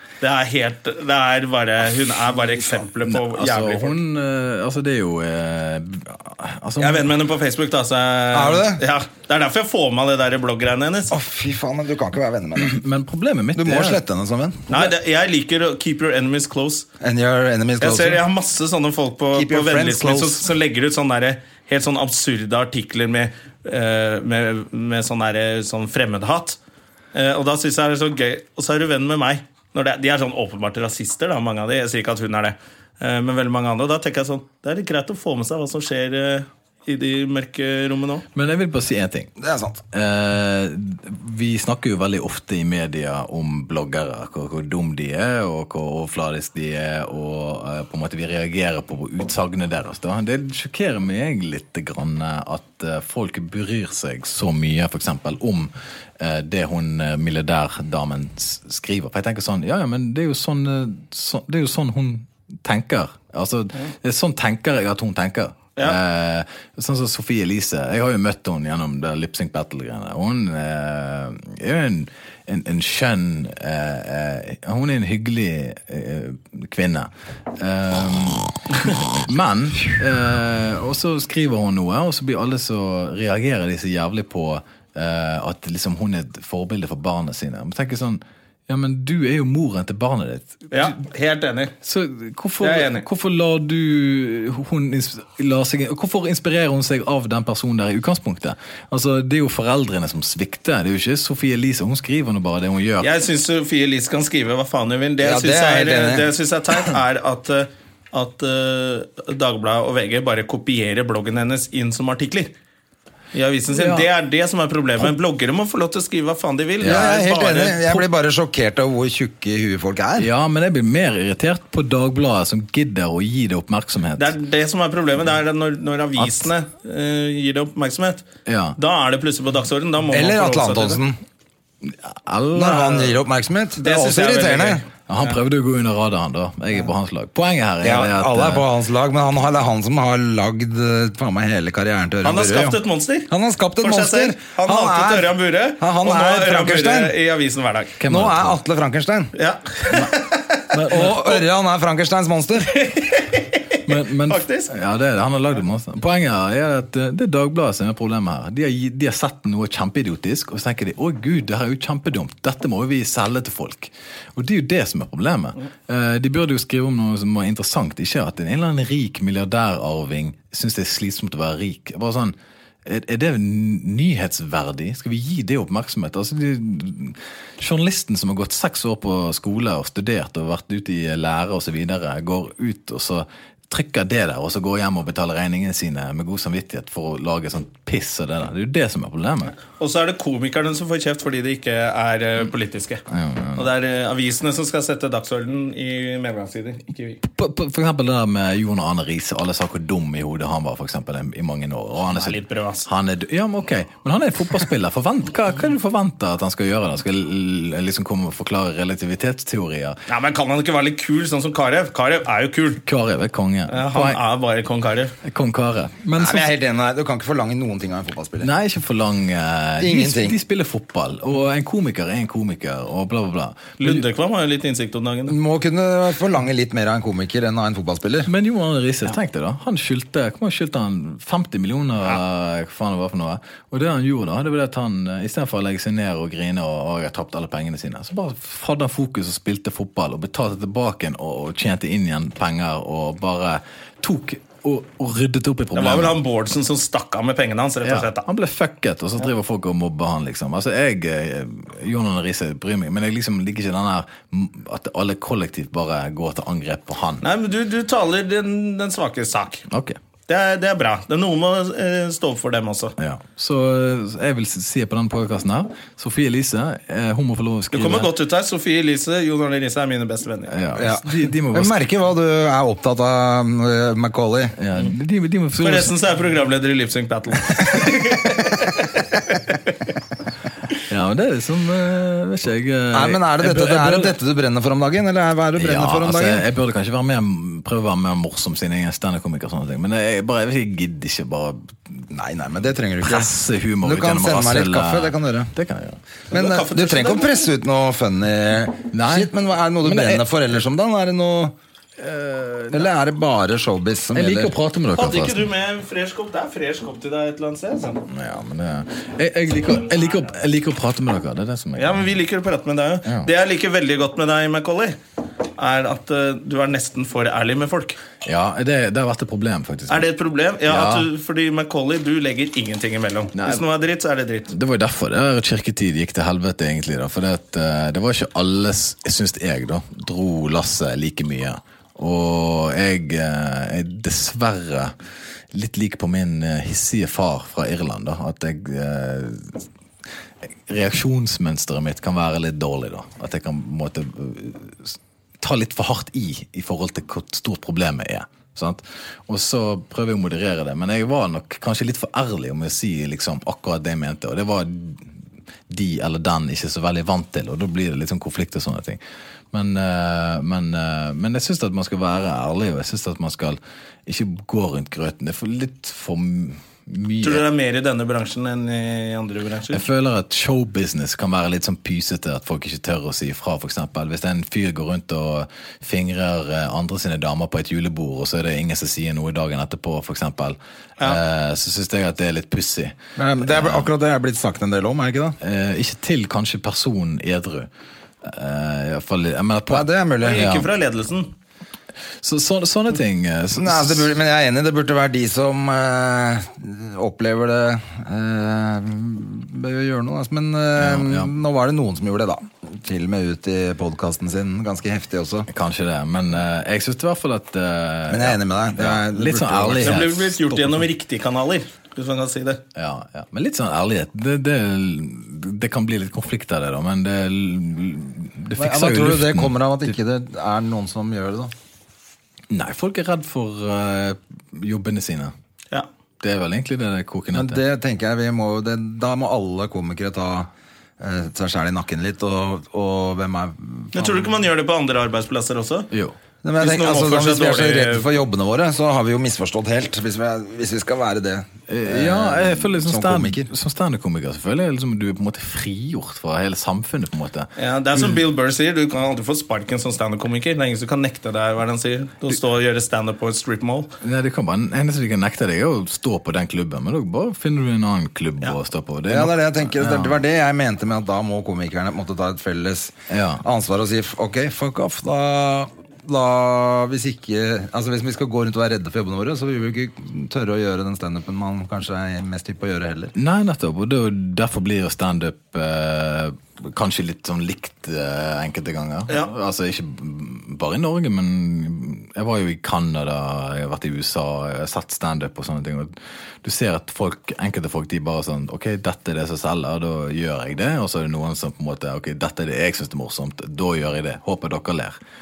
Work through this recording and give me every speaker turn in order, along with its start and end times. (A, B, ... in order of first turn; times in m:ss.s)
0:00.2-0:04.0 A
0:03.0-0:07.1 B
0:06.8-0:11.1 A
0:08.3-0:08.8 C
0:11.1-0:12.7 C
0:12.6-0:14.0 B
0:13.6-0:14.9 C
0:14.7-0:16.9 A
0:17.0-0:18.2 C
0:17.8-0:26.6 A
0:19.3-0:20.4 C
0:27.1-0:38.2 A
0:38.3-0:39.3 B
0:39.4-0:39.8 C
0:39.9-1:31.0 B
1:30.7-1:31.7 A
1:31.8-1:43.1 B
1:32.6-1:33.0 A
1:43.0-1:52.5 A
1:45.2-1:46.3 C
1:53.3-1:57.8 A
1:53.7-1:54.1 B
1:56.8-1:57.1 B
1:56.8-2:00.3 C
2:00.2-2:04.4 B
2:04.2-2:08.2 A
2:06.2-2:06.5 B
2:08.4-2:08.8 B
2:08.8-2:11.0 A
2:10.1-2:11.2 C
2:11.8-2:13.2 B
2:12.5-2:14.8 C
2:13.8-2:14.9 A
2:15.1-2:18.7 B
2:17.8-2:27.1 C
2:22.2-2:23.3 A
2:23.8-2:28.0 A
2:28.0-2:28.6 B
2:28.0-2:29.3 C
2:29.3-2:30.7 A
2:29.9-2:30.2 B
2:30.7-2:31.4 B
2:30.9-2:32.8 C
2:32.7-2:34.7 A
2:33.8-3:09.6 B
3:09.7-3:13.0 A
3:13.1-3:13.7 B
3:13.6-3:17.2 A
3:17.2-3:30.0 B
3:22.1-3:22.9 A
3:30.1-3:32.8 A
3:32.8-3:34.2 B
3:33.7-3:35.1 A
3:35.2-3:36.5 B
3:36.1-3:38.5 C
3:38.4-3:44.0 B
3:39.8-3:40.4 C
3:43.8-3:45.4 A
3:45.3-3:48.3 C
3:48.3-4:06.2 B
4:05.7-4:08.2 A
4:07.8-4:17.2 B
4:17.2-4:19.7 A
4:19.7-4:20.0 B
4:20.3-4:23.0 A
4:23.0-4:28.1 B
4:27.7-4:30.6 A
4:30.5-4:31.8 B
4:30.8-4:34.6 C
4:34.6-4:35.9 B
4:35.6-4:39.7 A
4:40.8-4:44.2 B
4:42.9-4:46.4 C
4:45.6-4:52.1 B
4:52.1-4:55.5 C
4:53.0-4:56.0 B
4:56.3-4:57.5 A
4:56.3-5:01.6 C
4:58.9-5:00.2 B
5:02.0-5:02.9 B
5:02.7-5:04.5 C
5:04.1-5:05.4 B
5:05.0-5:08.0 A
5:08.1-5:12.1 B
5:11.8-5:15.0 A
5:15.6-5:18.0 A
5:18.2-5:20.0 B
5:19.9-5:24.5 A
5:20.7-5:21.1 B
5:23.3-5:23.6 B
5:24.5-5:34.9 B
5:35.5-5:39.6 B
5:40.7-5:55.1 B
5:55.7-5:59.0 B
5:59.5-6:07.4 B
6:07.2-6:09.8 A
6:09.7-6:23.9 B
6:23.2-6:25.4 C
6:25.4-6:27.7 B
6:28.2-6:30.7 B
6:29.7-6:30.4 C
6:30.2-6:31.3 A
6:32.2-6:34.1 B
6:33.6-6:45.5 C
6:40.8-6:41.3 B
6:45.5-6:50.9 B
6:48.1-6:50.0 C
6:49.8-6:52.6 A
6:52.7-6:59.6 B
6:58.6-7:01.5 C
7:02.5-7:05.3 B
7:06.2-7:07.6 B
7:07.3-7:14.3 C
7:13.9-7:15.9 A
7:16.4-7:23.5 C
7:16.6-7:18.0 A
7:21.7-7:28.2 B
7:27.6-7:33.9 A
7:34.0-7:40.2 B
7:39.1-7:53.1 C
7:43.1-7:43.4 B
7:53.1-8:15.0 B